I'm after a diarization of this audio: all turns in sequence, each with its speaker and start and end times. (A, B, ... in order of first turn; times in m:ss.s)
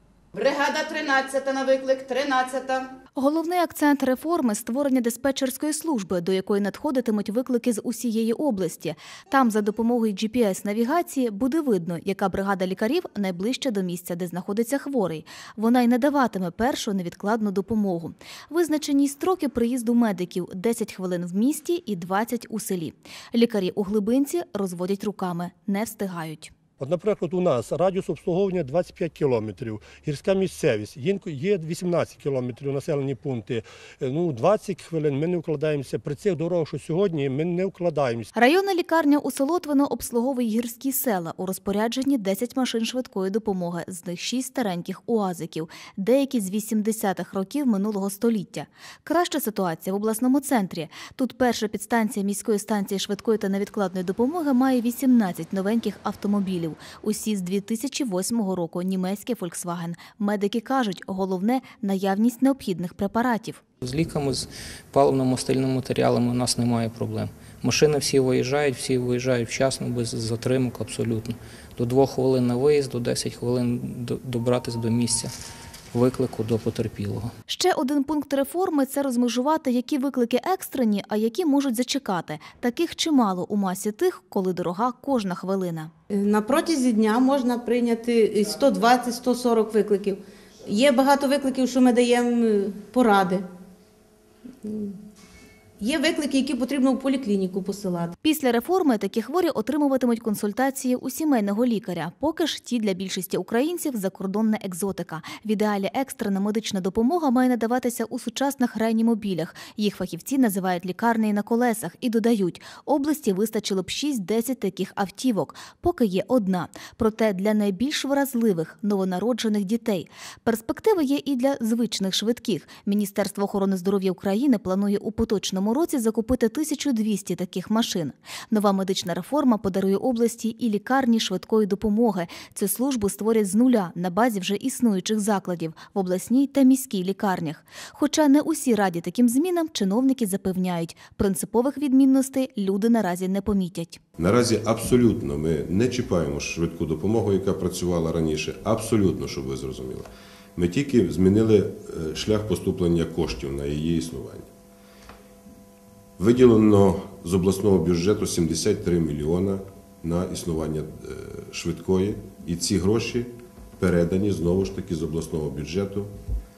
0:00.3-0:02.9 A
0:03.2-0:26.5 B
0:26.8-0:38.3 C
0:38.4-1:03.6 B
1:03.8-1:15.3 D
1:15.9-1:17.3 D
1:17.5-1:25.9 B
1:26.1-1:33.4 E
1:34.6-1:35.0 E
1:35.8-1:38.1 E
1:38.2-2:24.0 B
2:24.2-2:34.5 F
2:36.2-2:46.1 F